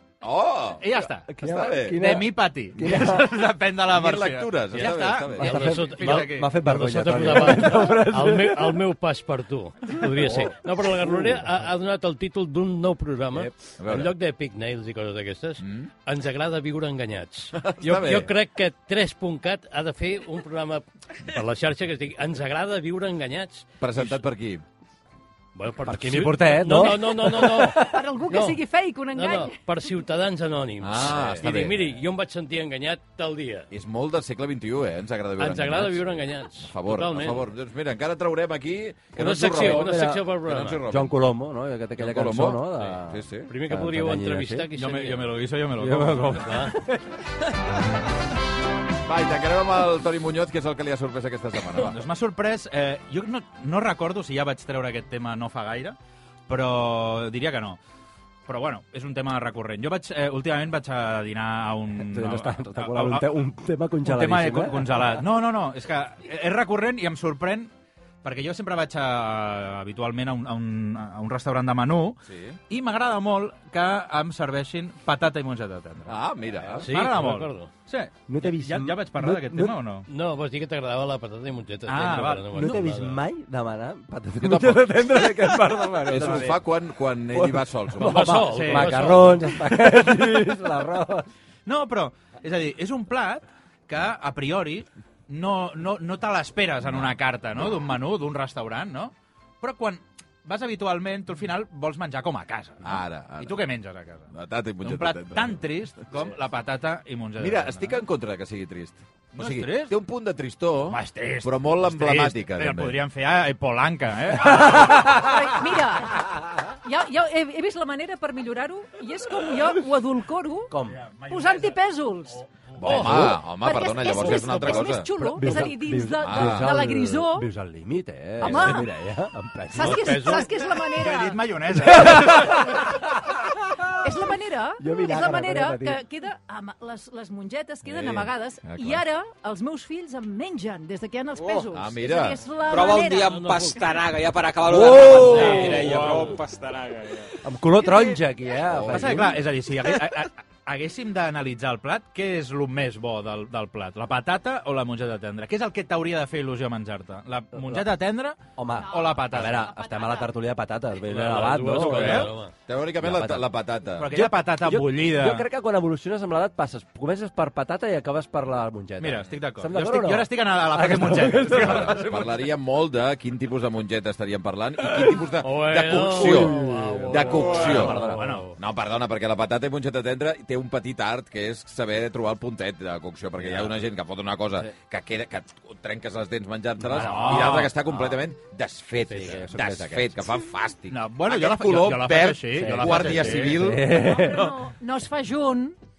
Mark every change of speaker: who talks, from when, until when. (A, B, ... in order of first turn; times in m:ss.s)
0:00.2-0:02.1 A
0:00.8-0:01.3 B
0:01.3-0:03.3 C
0:02.0-0:06.6 B
0:03.8-0:05.7 A
0:04.7-0:24.2 D
0:05.4-0:08.8 C
0:10.0-0:11.5 C
0:13.8-0:14.1 A
0:15.6-0:15.9 A
0:17.6-0:18.3 A
0:23.8-0:24.6 A
0:25.6-0:33.7 D
0:25.8-0:28.0 C
0:27.8-0:29.8 E
0:30.8-0:31.8 A
0:33.7-0:41.2 A
0:35.4-0:37.5 D
0:39.2-0:40.8 D
0:39.5-0:40.2 C
0:40.9-0:44.7 C
0:42.0-0:43.5 A
0:43.5-0:45.4 D
0:44.7-0:46.7 B
0:45.8-0:47.0 C
0:46.3-0:46.8 D
0:49.0-0:52.0 A
0:51.9-0:56.0 B
0:56.5-0:57.8 B
0:58.5-1:03.3 B
1:02.0-1:05.0 C
1:04.0-1:07.7 B
1:08.2-1:16.2 B
1:12.2-1:12.6 A
1:16.1-1:16.9 A
1:16.6-1:16.8 C
1:16.8-1:17.7 D
1:16.8-1:20.1 B
1:18.3-1:19.8 C
1:20.1-1:23.2 D
1:21.9-1:22.7 B
1:22.5-1:26.6 C
1:24.4-1:28.4 A
1:27.3-1:31.3 C
1:28.0-1:29.5 D
1:28.4-1:29.2 B
1:31.7-1:44.3 B
1:36.9-1:37.2 A
1:42.8-1:43.7 A
1:44.3-1:45.6 A
1:44.8-1:48.0 B
1:47.4-1:53.0 A
1:49.4-1:50.0 B
1:50.9-1:55.3 B
1:54.7-1:55.0 C
1:54.9-2:00.7 E
2:00.7-2:01.0 C
2:00.9-2:01.8 B
2:01.3-2:02.4 E
2:02.3-2:03.3 B
2:02.8-2:05.1 A
2:02.8-2:03.4 C
2:03.6-2:07.5 E
2:05.1-2:10.4 C
2:06.2-2:06.7 A
2:08.4-2:08.9 E
2:09.7-2:11.4 E
2:09.8-2:10.5 D
2:10.8-2:12.7 B
2:11.8-2:13.3 C
2:14.0-2:23.3 E
2:14.8-2:16.0 C
2:17.9-2:19.0 A
2:21.4-2:21.7 F
2:21.7-2:22.4 A
2:22.6-2:27.3 F
2:23.1-2:24.0 D
2:24.7-2:25.9 A
2:24.7-2:25.8 C
2:25.3-2:26.3 B
2:27.4-2:29.4 C
2:28.7-2:29.4 A
2:28.9-2:39.7 B
2:37.6-2:37.9 C
2:38.6-2:42.3 C
2:38.8-2:40.3 E
2:41.0-2:42.5 D
2:41.8-2:42.3 B
2:42.7-2:44.2 A
2:43.0-2:43.5 C
2:44.0-2:45.5 B
2:44.1-2:52.3 C
2:49.0-2:52.1 B
2:51.5-2:58.0 A
2:55.4-2:58.5 D
2:56.1-2:58.4 C
2:57.6-2:58.5 B
2:58.6-3:13.8 A
3:06.8-3:08.2 C
3:06.9-3:07.7 B
3:09.1-3:10.2 C
3:10.9-3:13.8 B
3:12.5-3:14.5 C
3:13.9-3:15.8 E